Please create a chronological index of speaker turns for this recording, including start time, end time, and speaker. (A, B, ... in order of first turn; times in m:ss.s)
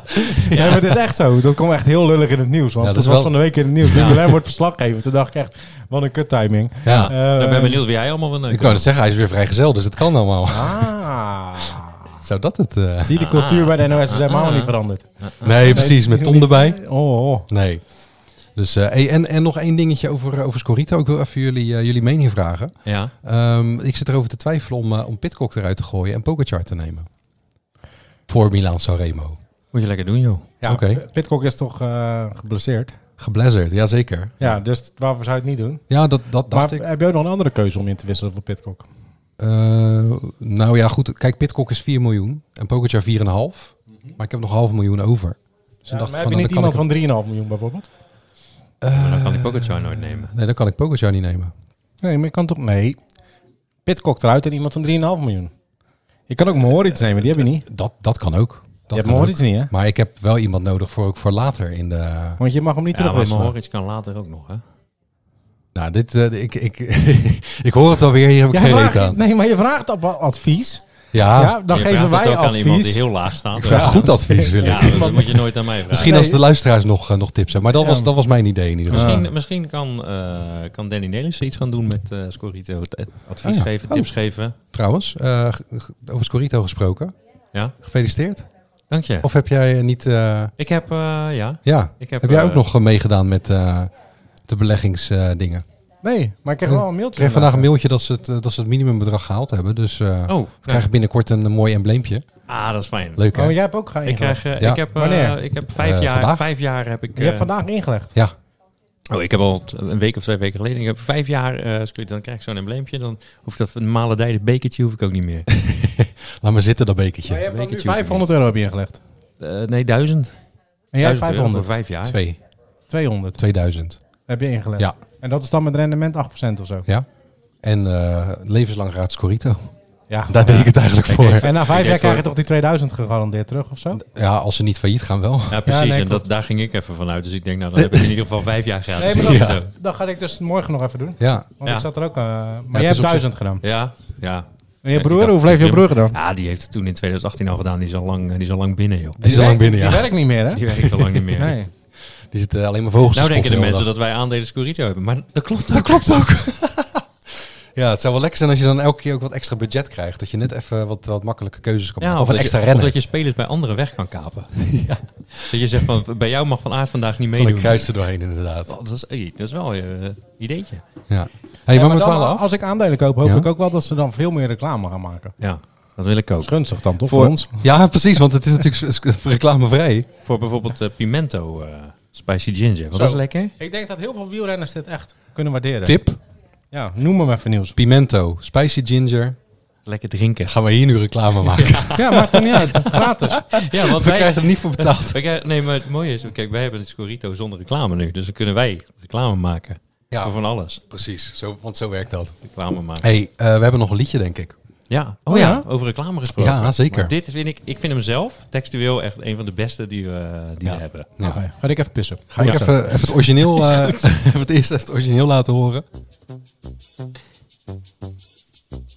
0:00.4-0:07.8 A
0:00.5-0:00.8 B
0:02.8-0:04.2 C
0:03.9-0:04.3 B
0:06.8-0:07.1 C
0:06.8-0:08.9 B
0:08.5-0:10.9 C
0:10.5-0:12.0 A
0:12.1-0:13.3 C
0:13.0-0:15.0 A
0:13.2-0:15.9 B
0:15.4-0:16.8 C
0:15.6-0:17.5 A
0:17.5-0:17.8 C
0:18.5-0:27.1 C
0:22.8-0:23.1 B
0:28.3-0:29.4 C
0:29.7-0:30.5 B
0:30.6-0:33.0 A
0:30.6-0:31.0 C
0:33.2-0:34.5 C
0:34.4-0:35.8 A
0:35.9-0:36.8 C
0:36.5-0:38.8 A
0:39.4-0:46.8 C
0:45.9-0:47.9 A
0:48.8-0:51.5 C
0:48.9-0:50.3 B
0:52.0-0:53.0 A
0:53.8-0:55.5 A
0:56.3-0:57.6 A
0:57.6-1:02.4 C
0:58.9-0:59.7 A
1:02.4-1:03.5 A
1:02.9-1:04.6 B
1:05.7-1:09.2 C
1:08.5-1:16.4 A
1:11.1-1:11.6 C
1:11.7-1:16.2 B
1:13.6-1:19.3 C
1:17.7-1:18.1 A
1:18.9-1:24.6 B
1:18.9-1:19.2 A
1:23.4-1:27.1 C
1:27.8-1:28.5 C
1:28.9-1:29.3 B
1:29.2-1:30.5 C
1:30.6-1:32.6 B
1:31.6-1:33.9 C
1:34.5-1:35.6 C
1:36.0-1:37.7 A
1:36.6-1:42.2 C
1:40.3-1:40.9 B
1:42.5-1:43.2 B
1:43.2-1:43.6 C
1:43.3-1:45.4 A
1:44.0-1:47.5 B
1:44.6-1:44.8 C
1:45.8-1:46.4 C
1:47.2-1:48.1 A
1:49.1-1:55.5 B
1:55.5-1:57.6 C
1:57.3-1:59.0 A
1:57.5-1:58.3 B
1:59.4-2:00.4 B
2:00.9-2:01.7 A
2:01.0-2:02.2 B
2:02.0-2:02.4 C
2:02.9-2:03.4 A
2:03.4-2:04.0 C
2:04.3-2:06.8 A
2:07.6-2:09.7 C
2:10.1-2:10.7 A
2:10.3-2:11.8 C
2:11.0-2:12.3 B
2:11.4-2:14.0 A
2:14.0-2:15.6 C
2:15.5-2:19.7 B
2:15.6-2:16.2 A
2:17.8-2:18.1 C
2:19.0-2:23.6 A
2:19.1-2:19.6 C
2:21.2-2:21.5 C
2:22.7-2:23.3 C
2:23.6-2:29.2 B
2:24.8-2:26.2 A
2:29.2-2:30.1 C
2:29.2-2:30.6 A
2:30.5-2:31.6 B
2:30.8-2:31.2 C
2:31.3-2:31.7 A
2:32.2-2:33.9 C
2:33.1-2:36.3 B
2:35.6-2:37.0 C
2:37.7-2:42.9 C
2:42.0-2:44.7 B
2:44.6-2:45.0 C
2:45.3-2:47.8 B
2:47.3-2:48.7 C
2:48.7-2:50.8 B
2:51.1-2:52.5 C
2:51.7-2:55.3 A
2:53.2-2:53.5 C
2:55.4-2:57.4 B
2:56.4-2:57.6 A
2:57.6-3:00.1 C
3:00.2-3:03.5 B
3:02.9-3:06.0 A
3:05.8-3:06.2 C
3:06.7-3:07.8 A
3:07.7-3:09.4 C
3:09.8-3:10.6 B
3:10.5-3:12.8 C
3:11.4-3:20.8 B
3:12.0-3:13.5 A
3:13.6-3:15.2 C
3:20.1-3:22.4 C
3:22.5-3:23.1 B
3:23.0-3:24.5 C
3:24.9-3:31.1 B
3:25.3-3:25.6 A
3:26.3-3:27.1 C
3:30.6-3:31.4 C
3:31.2-3:32.7 A
3:32.3-3:35.8 C
3:32.4-3:34.2 B